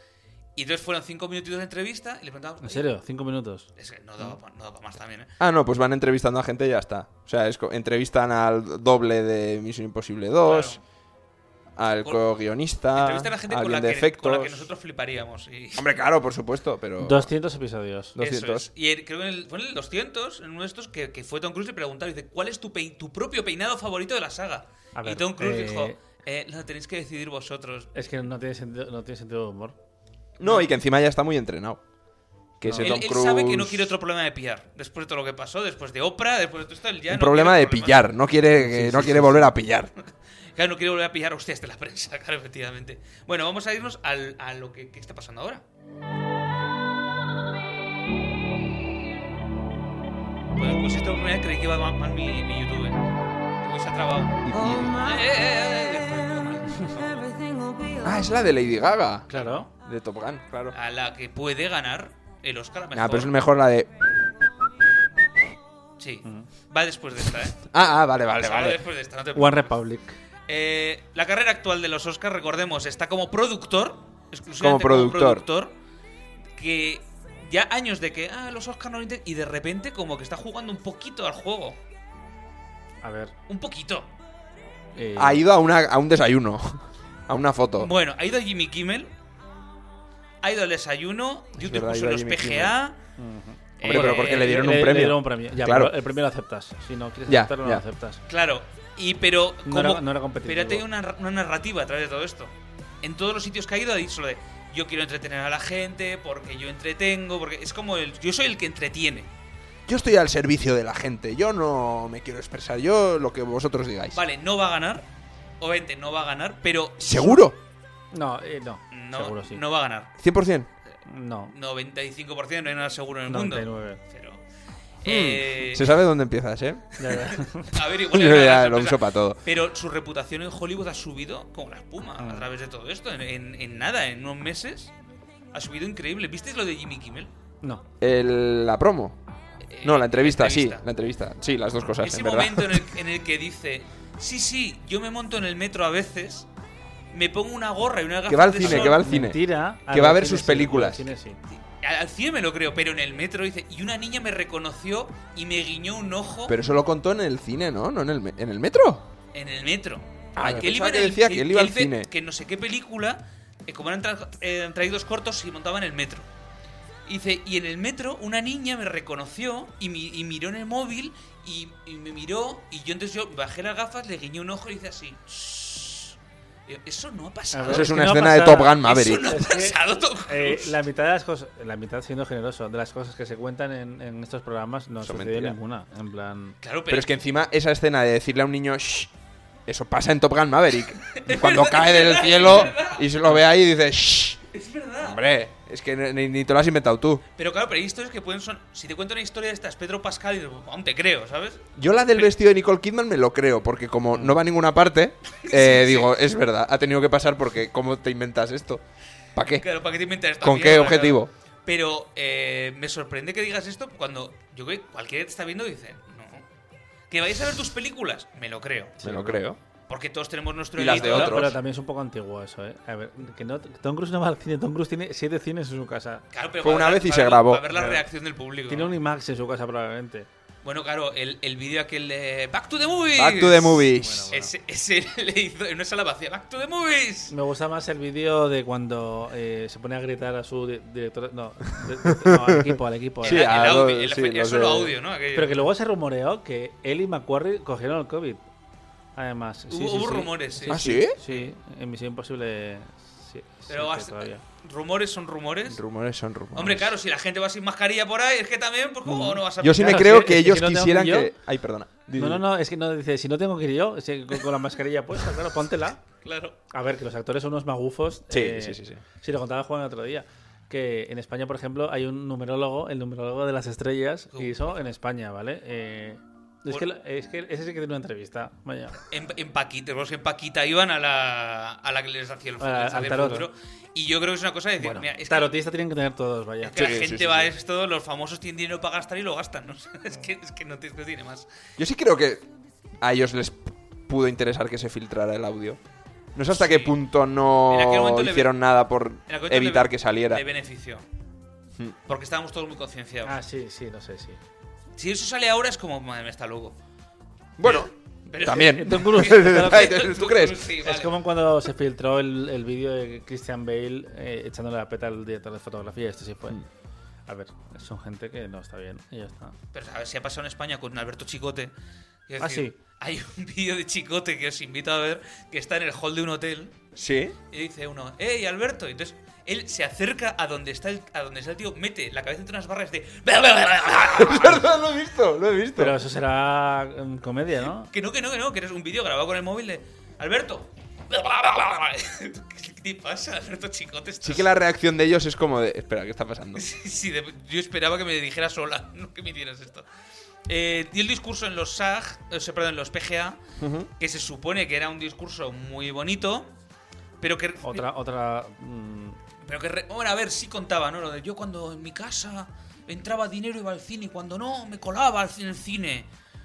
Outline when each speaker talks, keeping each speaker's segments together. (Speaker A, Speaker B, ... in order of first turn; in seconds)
Speaker A: 0.6-2.9, 3.8-5.3, 10.4-10.8, 12.9-15.9, 18.2-27.9, 32.8-38.1, 40.5-45.6, 50.6-53.1, 53.6-57.5, 59.3-59.7, 60.7-63.4, 66.0-67.6, 68.4-69.8, 70.5-75.7, 76.6-81.8, 83.5-84.1, 87.8-89.1, 90.4-93.0, 93.8-94.8, 98.3-109.3, 114.1-115.1, 115.6-117.4, 118.9-120.1, 121.5-124.4, 125.0-125.9, 127.1-134.9, 135.5-137.3, 139.7-140.8, 142.0-146.5, 147.1-149.0, 151.5-156.6, 159.3-166.3, 167.1-176.2, 176.7-178.2, 178.8-180.8, 186.6-187.1, 191.1-193.3, 194.5-195.2, 197.4-201.6, 205.4-206.2, 209.6-216.5, 217.1-219.1, 219.9-221.5, 226.3-228.9, 230.6-237.3, 243.2-245.7, 249.7-251.5, 253.7-255.8, 256.6-260.1, 266.2-266.6, 274.3-274.6, 279.1-285.6, 286.6-291.5, 296.5-297.0, 297.7-298.5, 299.3-301.1, 302.1-303.4, 305.0-306.8, 307.6-311.1, 319.7-321.7, 322.3-326.8, 327.5-334.7, 337.9-344.5, 346.6-349.9, 350.5-353.4, 354.0-356.5, 357.2-357.9, 359.4-366.1
Speaker B: 2.6-3.7, 17.0-18.1, 25.0-26.0, 27.9-29.8, 32.6-33.0, 38.5-39.5, 59.3-59.7, 69.3-70.2, 83.0-83.3, 85.0-85.5, 93.2-98.2, 99.7-100.8, 118.1-119.6, 121.1-121.5, 123.3-124.0, 127.0-127.7, 132.2-132.5, 148.6-151.4, 160.4-160.7, 177.5-186.6, 220.9-226.2, 227.7-228.0, 228.7-230.3, 234.0-234.5, 237.3-243.5, 245.3-248.4, 249.2-254.4, 259.1-261.3, 262.1-266.0, 266.7-279.0, 282.6-283.5, 284.8-286.8, 303.2-304.4, 308.7-310.0, 310.8-316.6, 317.3-319.6, 322.4-322.7, 335.8-337.9, 357.6-359.2
Speaker C: 5.4-10.8, 11.8-14.7, 15.8-17.3, 18.2-18.7, 30.4-31.8, 32.6-33.9, 37.1-39.9, 54.5-55.2, 58.0-60.8, 62.9-63.9, 67.7-68.8, 74.6-75.5, 85.2-87.9, 91.5-92.7, 93.8-95.9, 97.3-97.8, 109.9-114.2, 117.0-117.6, 120.2-120.7, 125.1-127.0, 128.1-129.4, 138.0-139.2, 139.8-143.0, 148.3-151.0, 156.5-159.1, 160.4-162.1, 177.6-179.3, 185.0-185.6, 186.9-189.1, 189.7-194.4, 195.0-197.2, 201.8-208.8, 209.3-209.7, 210.4-211.3, 219.0-219.6, 220.8-221.6, 226.6-227.7, 233.1-234.3, 242.2-245.0, 250.7-251.2, 255.7-256.9, 259.6-262.4, 268.3-269.0, 286.8-287.5, 291.8-292.4, 293.0-295.8, 296.4-300.4, 307.6-310.7, 327.0-327.4, 334.1-336.0, 344.2-346.6, 353.6-353.9